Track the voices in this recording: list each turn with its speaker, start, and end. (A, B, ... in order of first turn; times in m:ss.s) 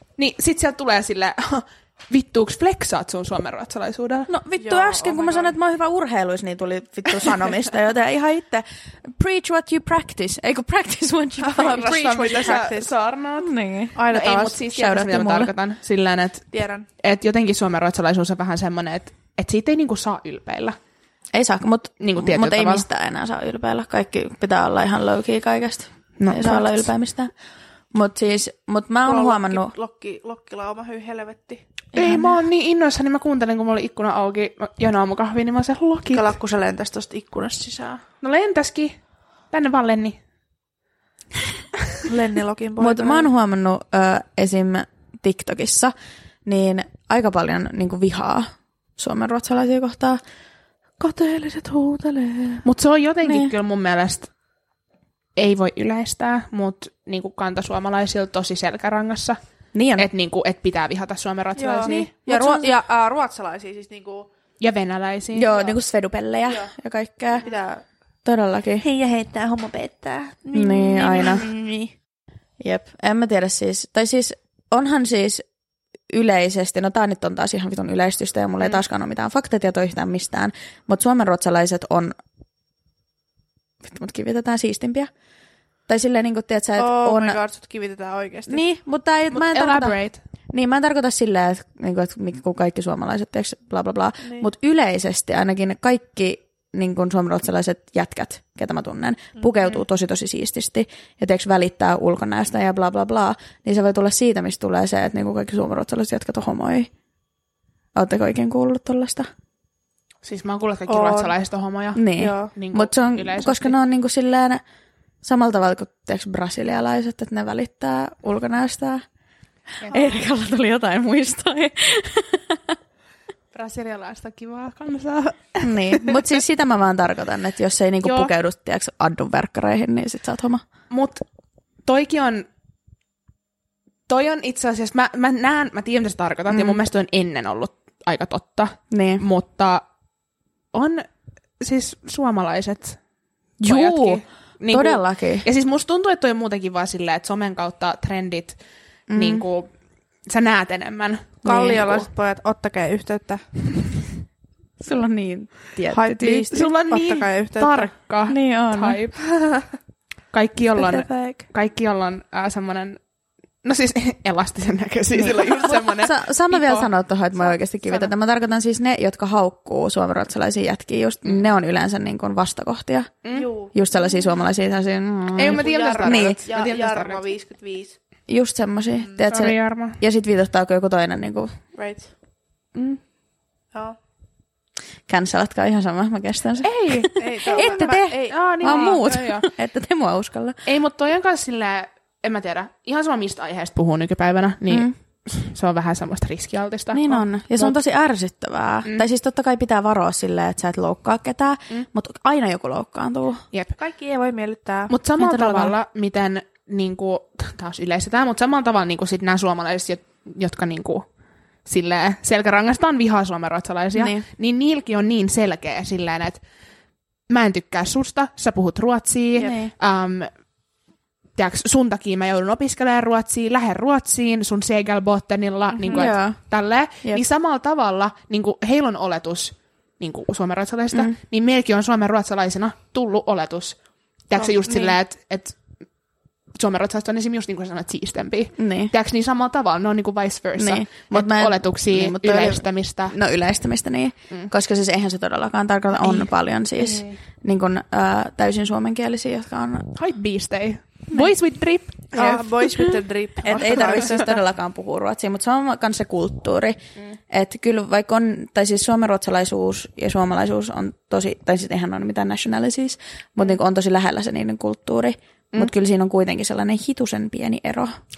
0:00.2-0:04.3 A
0:04.3-0:11.9 B
0:04.6-0:05.5 C
0:11.4-0:12.9 C
0:11.6-0:16.5 A
0:13.4-0:14.0 B
0:14.0-0:14.6 C
0:14.6-0:15.5 B
0:16.5-0:16.9 C
0:17.0-0:20.8 A
0:21.3-0:27.3 B
0:22.0-0:22.8 A
0:26.2-0:26.9 A
0:27.9-0:29.7 B
0:29.0-0:31.7 C
0:32.0-0:32.4 B
0:32.0-0:36.3 A
0:36.1-0:38.0 C
0:38.2-0:39.0 A
0:39.5-0:40.2 A
0:42.1-0:43.3 C
0:42.8-0:45.9 B
0:46.4-0:50.2 B
0:51.0-0:52.7 C
0:52.6-0:54.3 A
0:55.4-0:59.4 A
0:59.7-1:00.1 B
1:00.0-1:02.1 A
1:01.6-1:04.3 C
1:01.9-1:02.7 B
1:04.6-1:05.5 A
1:05.3-1:07.4 B
1:05.5-1:05.8 C
1:07.4-1:07.8 C
1:08.2-1:08.9 B
1:08.8-1:11.9 C
1:10.5-1:11.5 B
1:12.6-1:15.4 B
1:16.1-1:22.2 B
1:23.8-1:25.1 B
1:25.9-1:27.4 B
1:26.8-1:28.6 C
1:28.5-1:30.0 B
1:29.3-1:30.2 A
1:30.5-1:46.9 B
1:48.0-1:49.3 B
1:50.2-1:53.8 A
1:50.9-1:51.3 C
1:52.0-1:54.6 B
1:52.2-1:52.5 C
1:55.2-1:59.0 B
1:59.8-2:00.3 A
1:59.9-2:02.8 B
2:03.5-2:06.2 A
2:05.6-2:10.6 B
2:08.0-2:08.3 A
2:10.9-2:11.2 A
2:11.8-2:12.5 A
2:14.1-2:19.8 A
2:16.5-2:16.8 B
2:18.9-2:19.2 B
2:20.7-2:21.1 A
2:21.6-2:23.0 A
2:23.6-2:25.5 B
2:23.6-2:28.6 A
2:29.1-2:29.4 B
2:29.2-2:29.7 A
2:30.3-2:32.1 A
2:31.4-2:33.5 C
2:31.5-2:31.8 B
2:34.8-2:36.7 B
2:35.9-2:37.9 C
2:36.5-2:39.2 A
2:38.3-2:39.0 B
2:39.4-2:39.7 C
2:40.3-2:43.0 A
2:40.8-2:41.4 C
2:43.6-2:46.9 A
2:45.1-2:53.1 B
2:47.9-2:48.1 A
2:53.2-2:53.5 A
2:53.4-2:53.8 C
2:53.7-2:56.4 B
2:55.4-2:57.3 A
2:55.4-2:58.0 C
2:58.3-3:01.6 B
2:59.3-3:00.0 A
3:01.8-3:02.1 C
3:03.7-3:04.0 C
3:05.1-3:10.6 B
3:06.6-3:09.5 A
3:07.2-3:09.1 C
3:10.7-3:17.8 A
3:16.9-3:23.4 B
3:23.8-3:24.9 C
3:24.9-3:31.1 A
3:25.2-3:25.7 B
3:31.7-3:36.4 A
3:34.0-3:34.3 B
3:37.3-3:40.3 A
3:39.4-3:39.7 B
3:41.4-3:53.8 A
3:45.9-3:46.4 B
3:54.3-3:55.6 A
3:54.4-3:55.0 C
3:56.6-4:03.2 A
3:58.6-3:58.9 B
4:00.6-4:09.9 B
4:06.0-4:07.2 A
4:10.0-4:12.5 A
4:12.1-4:14.3 C
4:12.2-4:12.9 B
4:13.4-4:16.8 B
4:13.6-4:14.2 A
4:17.3-4:28.0 B